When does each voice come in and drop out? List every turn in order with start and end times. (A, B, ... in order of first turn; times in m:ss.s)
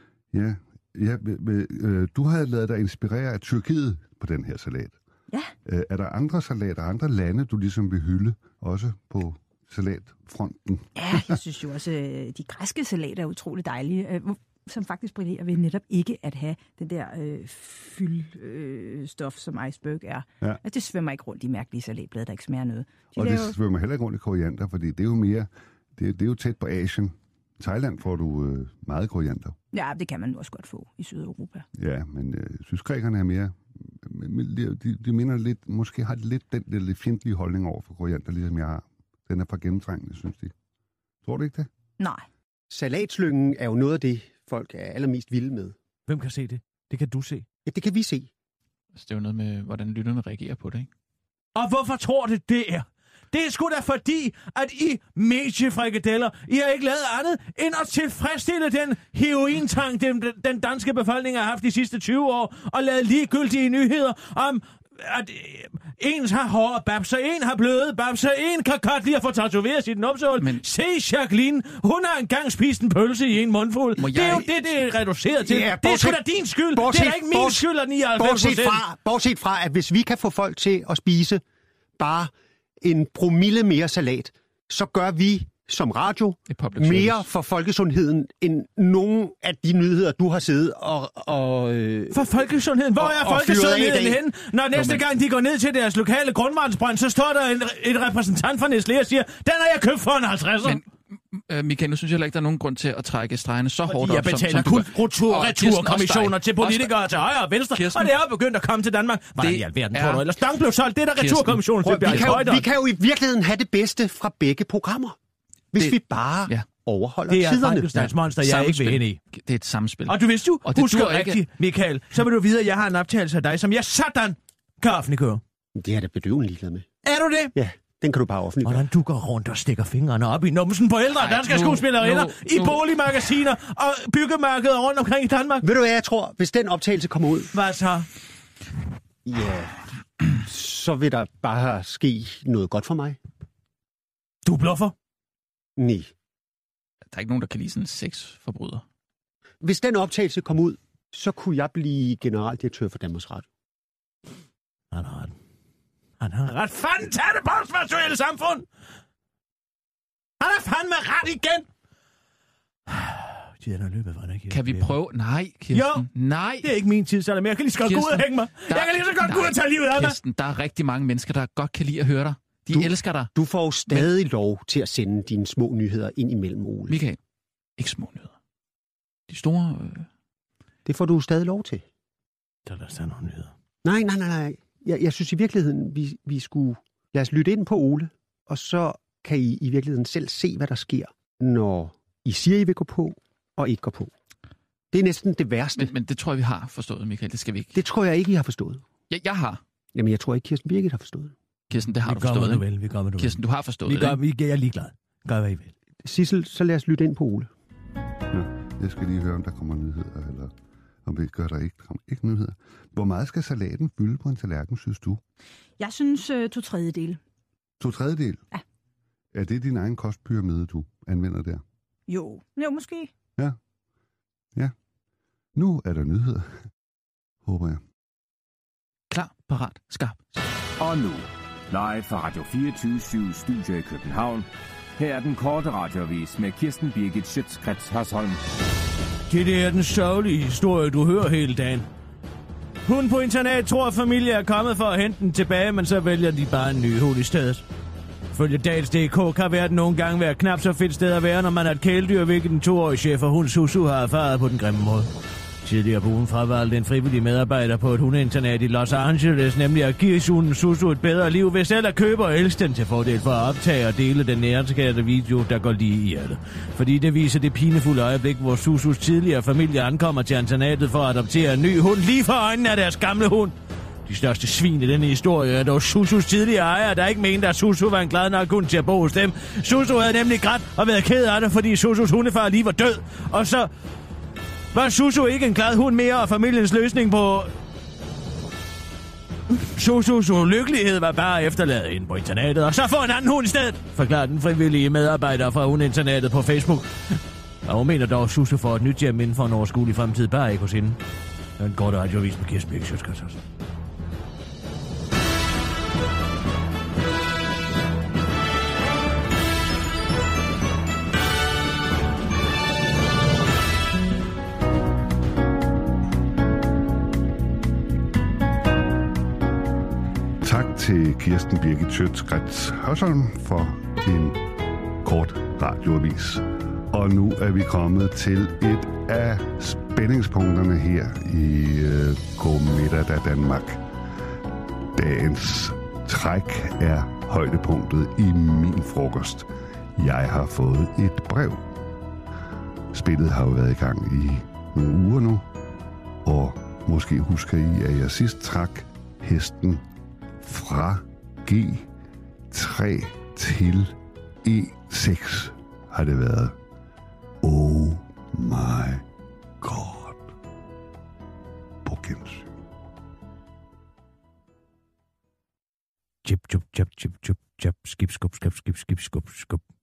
0:00.3-0:05.0 A
0:05.7-0:11.4 A
0:11.0-0:23.6 B
0:23.2-0:29.6 A
0:29.7-0:31.7 B
0:31.8-0:40.5 A
0:41.2-0:41.7 A
0:42.0-0:42.3 B
0:42.7-0:45.8 C
0:46.1-0:47.5 D
0:47.7-0:48.3 C
0:49.0-0:50.9 E
0:51.6-1:18.8 D
1:14.0-1:14.5 E
1:15.4-1:17.6 C
1:18.2-1:21.4 C
1:22.0-1:32.3 C
1:26.5-1:27.3 E
1:32.1-1:40.8 D
1:33.0-1:34.2 C
1:40.6-1:46.9 E
1:43.9-1:52.6 D
1:47.7-1:48.1 E
1:49.4-1:50.2 E
1:51.2-1:52.5 E
1:51.8-1:55.2 C
1:55.7-1:58.1 C
1:55.8-1:56.7 E
1:57.3-1:59.2 D
1:58.4-2:01.4 E
2:00.1-2:05.4 D
2:05.8-2:06.9 C
2:07.0-2:07.5 D
2:07.6-2:08.9 C
2:08.6-2:15.6 D
2:11.2-2:12.8 E
2:15.6-2:17.5 C
2:17.5-2:18.1 D
2:19.2-2:23.2 C
2:24.4-2:24.9 D
2:25.8-2:26.1 C
2:27.1-2:28.8 E
2:29.6-2:33.5 C
2:34.9-2:35.3 D
2:36.2-2:38.7 D
2:40.4-2:41.7 D
2:42.9-2:45.0 D
2:44.5-2:46.7 E
2:45.7-2:46.1 D
2:46.6-2:50.2 D
2:47.8-2:53.3 E
2:52.7-2:57.0 C
2:56.9-2:57.2 E
2:57.8-2:58.3 E
2:59.3-3:00.1 E
3:00.9-3:01.8 C
3:02.7-3:03.5 D
3:03.8-3:14.1 C
3:14.9-3:15.9 C
3:15.8-3:17.8 E
3:17.8-3:18.8 C
3:19.1-3:19.6 E
3:19.9-3:21.3 C
3:21.7-3:22.6 E
3:22.1-3:25.7 D
3:23.2-3:24.2 E
3:26.0-3:27.5 C
3:28.3-3:30.5 A
3:31.0-3:35.2 A
3:35.8-3:37.2 B
3:37.8-3:38.4 A
3:39.3-3:41.6 A
3:42.1-3:43.1 B
3:45.6-3:46.7 A
3:47.4-3:47.8 A
3:49.1-3:50.3 E
3:50.8-3:58.4 F
3:59.3-4:01.9 D
4:02.9-4:07.6 D
4:08.3-4:15.1 D
4:15.6-4:33.6 D
4:34.1-4:43.7 D
4:44.7-4:47.5 D
4:49.5-5:01.0 D
5:01.6-5:03.4 D
5:20.4-5:24.4 A
5:25.0-5:33.8 A
5:34.9-5:41.7 A
5:42.9-5:45.5 A
5:46.2-5:49.8 A
5:50.4-5:51.9 A
5:52.5-5:56.6 A
5:57.4-5:59.0 A
5:59.6-6:00.3 A
6:01.8-6:02.5 A
6:06.2-6:09.6 D